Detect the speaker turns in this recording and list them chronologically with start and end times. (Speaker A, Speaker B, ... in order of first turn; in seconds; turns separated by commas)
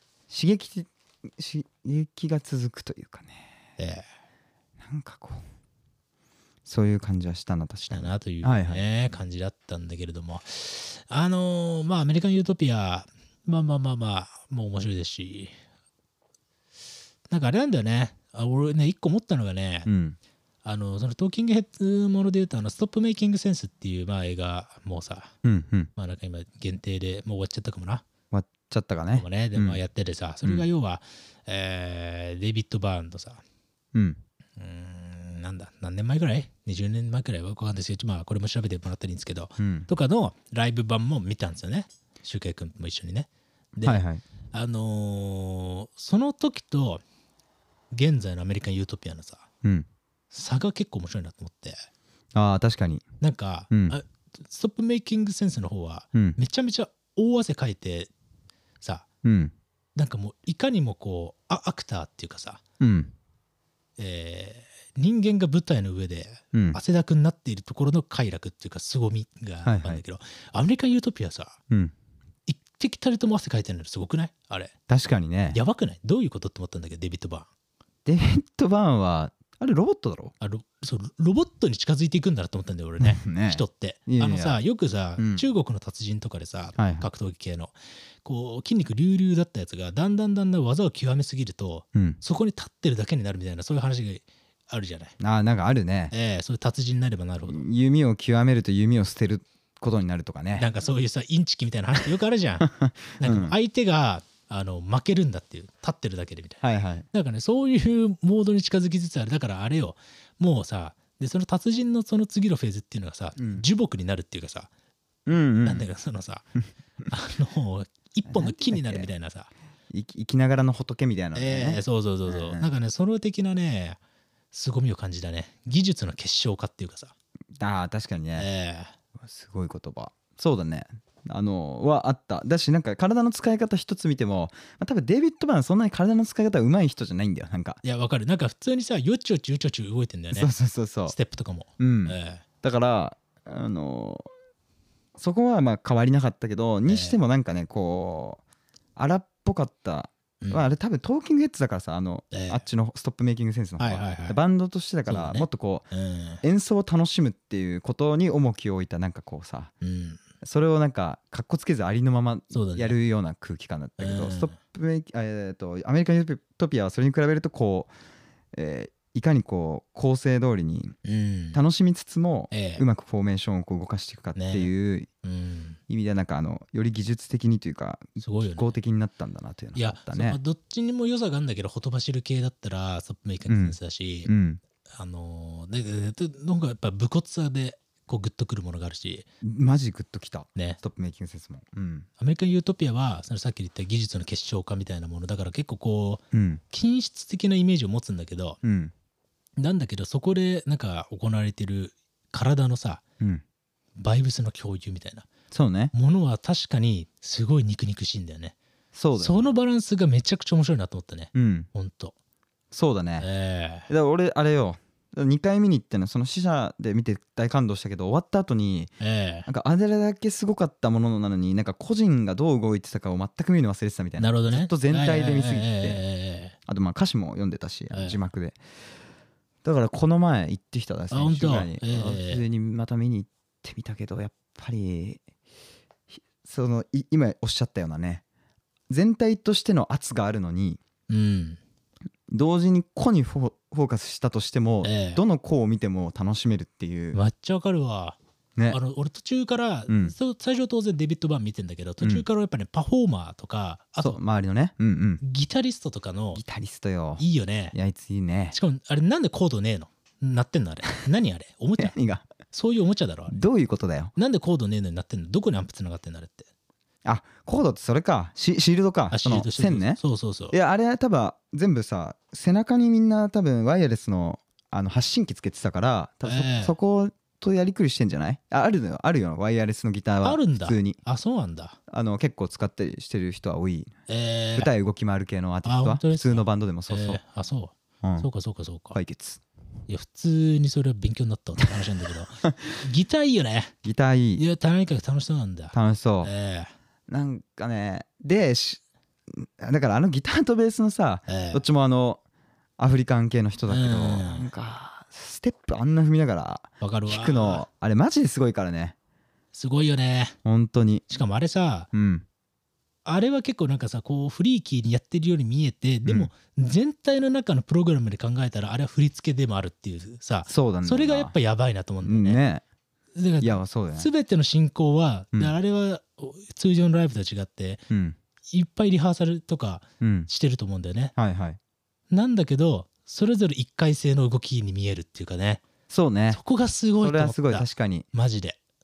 Speaker A: 0.3-3.5, Speaker B: 3.8-4.0, Speaker A: 4.8-5.4, Speaker A: 6.7-8.8, Speaker B: 7.9-15.5, Speaker B: 17.3-19.9, Speaker A: 19.9-20.2, Speaker B: 20.6-25.3, Speaker A: 25.4-25.9, Speaker B: 25.9-28.0, Speaker A: 28.3-29.8, Speaker B: 29.1-33.4, Speaker A: 33.9-34.2, Speaker B: 34.6-47.0, Speaker A: 39.6-39.9, Speaker A: 43.8-44.2, Speaker B: 47.9-49.5, Speaker B: 50.3-51.8, Speaker A: 52.3-53.0, Speaker B: 53.2-58.1, Speaker A: 53.7-54.0, Speaker B: 58.8-59.0, Speaker A: 59.2-59.5, Speaker B: 60.0-62.6, Speaker A: 62.8-63.1, Speaker B: 64.0-71.6, Speaker A: 66.5-66.8, Speaker A: 69.6-70.0, Speaker B: 72.5-74.7, Speaker A: 74.9-75.6, Speaker B: 75.5-77.5, Speaker A: 78.0-80.3, Speaker B: 80.4-95.1, Speaker A: 83.0-84.6, Speaker A: 85.2-85.4, Speaker A: 86.8-87.1, Speaker A: 91.9-92.2, Speaker A: 95.2-96.1, Speaker B: 96.1-97.7, Speaker A: 97.5-100.7, Speaker B: 100.6-102.7, Speaker A: 102.6-103.5, Speaker B: 103.2-114.7, Speaker A: 106.6-107.0, Speaker A: 113.4-113.6, Speaker A: 115.2-115.9, Speaker B: 115.6-116.5, Speaker B: 117.1-119.5, Speaker A: 118.3-119.1, Speaker A: 119.9-122.7, Speaker B: 121.3-124.0, Speaker B: 124.5-127.1, Speaker A: 127.5-128.5, Speaker B: 128.3-128.9, Speaker A: 129.2-137.8, Speaker B: 137.8-140.5, Speaker A: 140.3-141.2, Speaker B: 141.1-142.4, Speaker A: 141.8-144.3, Speaker A: 145.2-148.4, Speaker B: 146.9-147.2, Speaker A: 148.9-155.9, Speaker B: 152.3-152.6, Speaker B: 153.8-154.4, Speaker B: 155.1-156.4, Speaker A: 156.4-159.7, Speaker B: 159.8-160.2, Speaker A: 160.4-167.9, Speaker B: 162.5-162.9, Speaker B: 164.0-164.6, Speaker A: 168.5-170.9, Speaker B: 171.0-171.6, Speaker A: 171.5-175.1, Speaker B: 172.5-172.8, Speaker B: 174.3-174.7, Speaker B: 175.2-175.8, Speaker A: 175.9-180.4, Speaker B: 178.2-178.7, Speaker B: 179.8-184.3, Speaker A: 183.5-184.6, Speaker B: 184.9-189.3, Speaker A: 189.4-192.1, Speaker B: 192.2-198.6, Speaker A: 196.3-196.6, Speaker A: 198.6-198.9, Speaker B: 199.6-203.0, Speaker B: 204.0-205.3, Speaker A: 205.5-205.9, Speaker B: 205.9-208.6, Speaker A: 208.9-209.5, Speaker B: 209.2-212.1, Speaker A: 211.3-211.7, Speaker A: 212.7-213.3, Speaker B: 213.2-213.9, Speaker A: 213.9-218.9, Speaker B: 219.0-219.5, Speaker A: 219.4-226.0, Speaker B: 224.2-226.6, Speaker A: 226.7-228.6, Speaker B: 227.9-228.2, Speaker A: 229.6-235.2, Speaker B: 231.1-232.4, Speaker A: 236.4-238.2, Speaker A: 238.9-240.8, Speaker B: 241.1-241.6, Speaker A: 242.3-247.2, Speaker B: 244.8-245.2, Speaker B: 247.1-248.2, Speaker B: 248.7-254.2, Speaker A: 249.9-250.1, Speaker A: 254.0-255.2, Speaker B: 255.2-256.4, Speaker A: 256.3-258.6, Speaker B: 257.2-257.8, Speaker B: 258.5-261.9, Speaker A: 261.8-262.3, Speaker B: 262.5-263.4, Speaker A: 263.3-264.1, Speaker B: 264.1-266.5, Speaker A: 267.0-270.0, Speaker B: 269.1-270.6, Speaker A: 270.5-281.0, Speaker B: 276.2-276.7, Speaker B: 280.2-281.8, Speaker A: 281.9-283.9, Speaker B: 284.1-284.7, Speaker A: 284.5-287.2, Speaker B: 285.6-289.0, Speaker A: 288.0-288.3, Speaker A: 288.9-289.4, Speaker B: 289.9-293.7, Speaker A: 293.8-294.4, Speaker B: 294.4-296.7, Speaker A: 295.7-296.3, Speaker A: 297.1-302.2, Speaker B: 301.3-301.6, Speaker A: 302.8-308.9, Speaker B: 303.7-304.5, Speaker B: 306.8-307.6, Speaker B: 309.5-310.4, Speaker A: 310.4-311.0, Speaker B: 311.1-311.9, Speaker A: 311.9-312.2, Speaker B: 313.0-322.4, Speaker A: 316.1-316.3, Speaker A: 320.5-321.3, Speaker A: 322.0-322.6, Speaker B: 323.1-327.8, Speaker A: 323.4-324.1, Speaker A: 327.9-328.2, Speaker B: 328.5-331.1, Speaker A: 330.0-330.3, Speaker A: 331.1-331.6, Speaker B: 332.1-335.6, Speaker A: 335.9-336.4, Speaker B: 336.3-338.6, Speaker A: 337.0-338.1